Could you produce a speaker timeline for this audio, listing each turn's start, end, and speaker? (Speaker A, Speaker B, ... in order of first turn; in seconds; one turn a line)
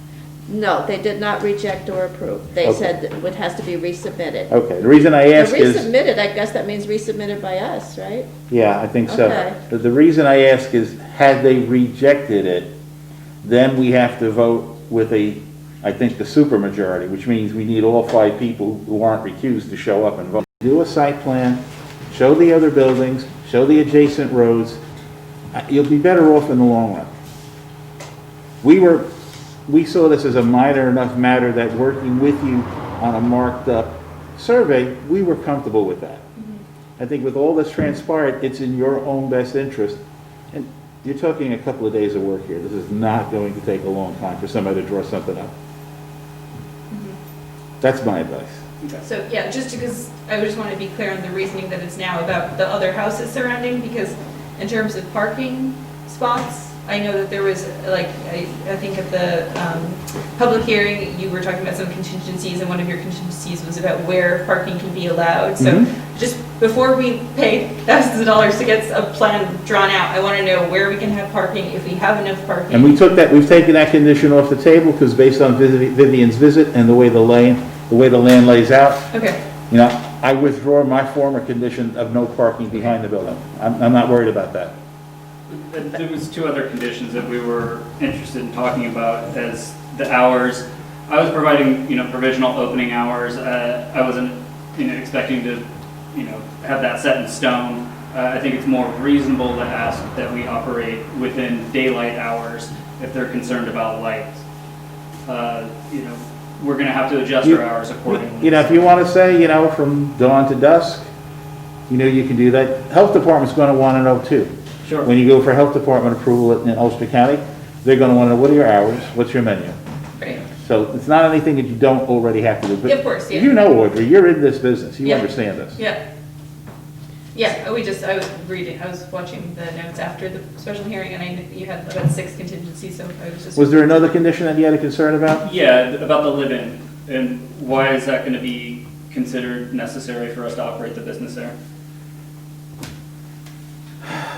Speaker A: 0.5-4.5
Speaker B: 2.6-2.9
Speaker B: 4.5-5.9
Speaker A: 5.3-8.3
Speaker B: 8.5-12.7
Speaker A: 9.1-9.6
Speaker B: 13.4-24.8
Speaker B: 25.5-27.1
Speaker B: 28.6-29.1
Speaker B: 29.7-36.2
Speaker B: 37.0-40.0
Speaker B: 40.5-45.5
Speaker C: 46.9-47.2
Speaker B: 47.8-48.6
Speaker C: 49.0-73.0
Speaker B: 65.6-65.9
Speaker B: 72.7-79.1
Speaker C: 79.1-79.4
Speaker B: 79.7-84.7
Speaker D: 85.5-104.4
Speaker D: 105.3-108.9
Speaker B: 107.4-111.1
Speaker B: 111.9-114.5
Speaker D: 114.8-115.1
Speaker B: 115.0-119.8
Speaker C: 120.2-120.5
Speaker B: 120.6-125.8
Speaker C: 122.8-123.5
Speaker C: 125.0-126.0
Speaker C: 127.3-134.0
Speaker B: 133.6-135.4
Speaker D: 135.4-141.5